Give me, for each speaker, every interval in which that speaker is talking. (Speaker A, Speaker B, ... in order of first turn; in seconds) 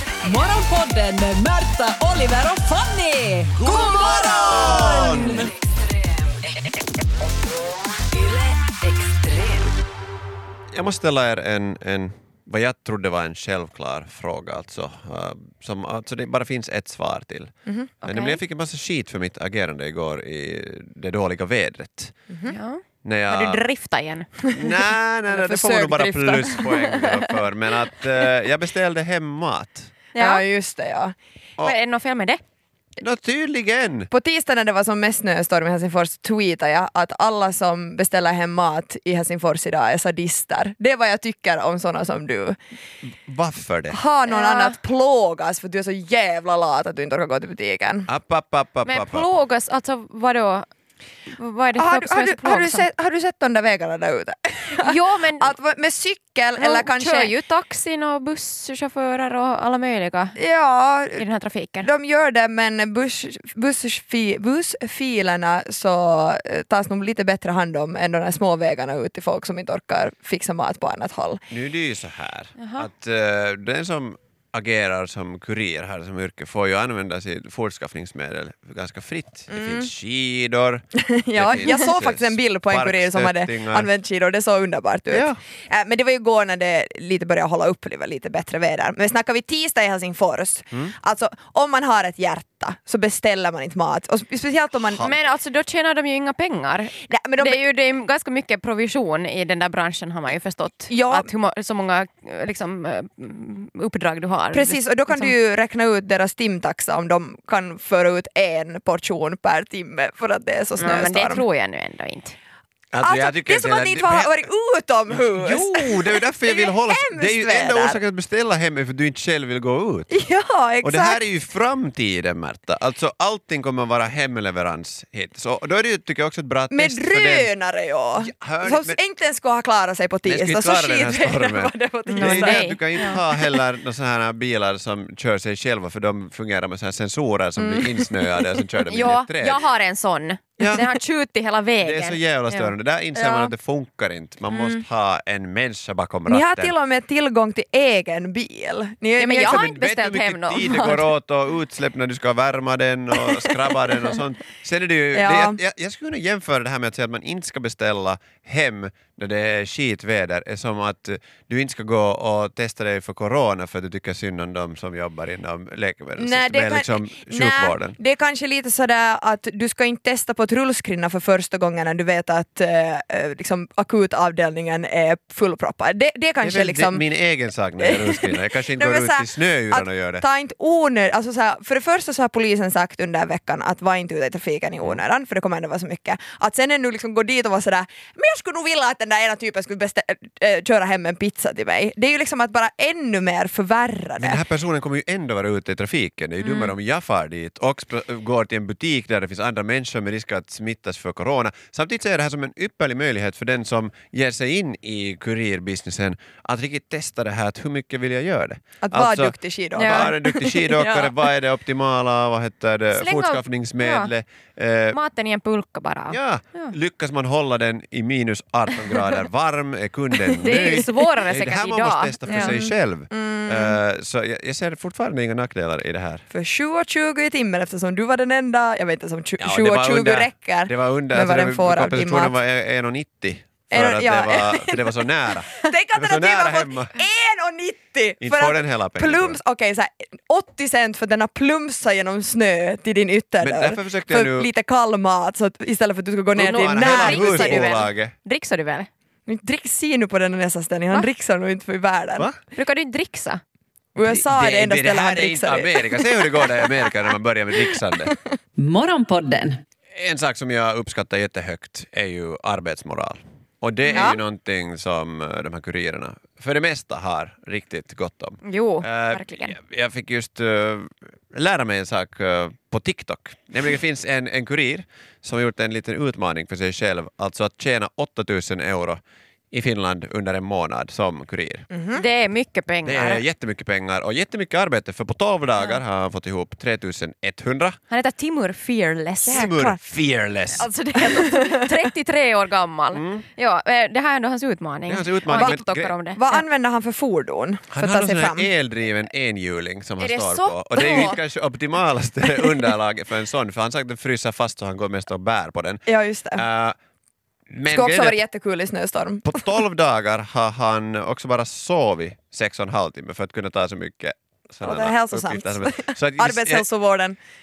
Speaker A: 0.2-5.5, 8.2-9.7, 258.6-259.6
Speaker B: 3.6-5.5, 10.7-17.5, 18.0-22.1, 23.0-23.6, 24.5-29.9, 33.0-34.1, 43.3-44.0, 48.1-49.3, 71.5-83.9, 85.1-85.4, 112.9-114.4, 115.1-120.1, 120.8-127.5, 128.2-129.0, 130.2-139.6, 140.6-140.8, 141.8-146.7, 149.4-168.0, 176.4-180.2, 194.2-215.0, 216.1-226.2, 229.4-236.9, 238.2-239.4, 243.4-244.5, 246.3-248.1, 254.0-258.1, 259.9-279.0, 279.5-281.7, 282.9-287.8, 289.3-290.7, 292.9-293.3, 294.9-295.9, 297.7-306.8, 307.5-308.2, 309.2-316.6
Speaker C: 17.7-17.9, 22.3-22.6, 24.5-24.7, 25.3-27.2, 30.2-31.1, 34.1-42.6, 43.9-48.1, 51.8-57.3, 60.4-61.2, 61.8-71.4, 79.5-79.9, 81.1-95.1, 97.1-97.6, 100.9-101.3, 104.5-111.4, 113.0-118.0, 120.1-121.2, 126.7-133.5, 137.6-138.6, 143.2-143.5, 146.3-149.7, 153.2-153.5, 155.1-155.6, 166.2-177.0, 177.8-194.4, 208.8-211.1, 220.4-220.9, 222.3-223.8, 226.3-232.4, 233.7-247.8, 249.3-252.3, 253.9-256.6, 281.7-282.1, 289.2-289.8, 291.0-291.6, 295.3-295.6, 296.1-298.5, 305.9-306.4, 307.7-309.4, 314.6-317.2
Speaker D: 18.0-18.4, 22.5-24.3, 30.1-30.4, 31.6-32.4, 44.3-44.8, 48.9-50.7, 51.3-52.9, 54.8-55.5, 56.6-60.4, 61.1-61.9, 72.6-72.9, 95.0-105.3, 110.8-112.3, 132.1-133.2, 138.9-142.7, 144.5-144.8, 149.2-151.1, 196.4-196.7, 209.8-210.1, 213.0-214.1, 214.9-216.7, 220.4-222.6, 246.5-248.9, 252.5-253.4, 263.9-264.2, 268.4-269.6, 281.9-283.2, 287.9-289.5, 290.5-296.4, 300.0-301.2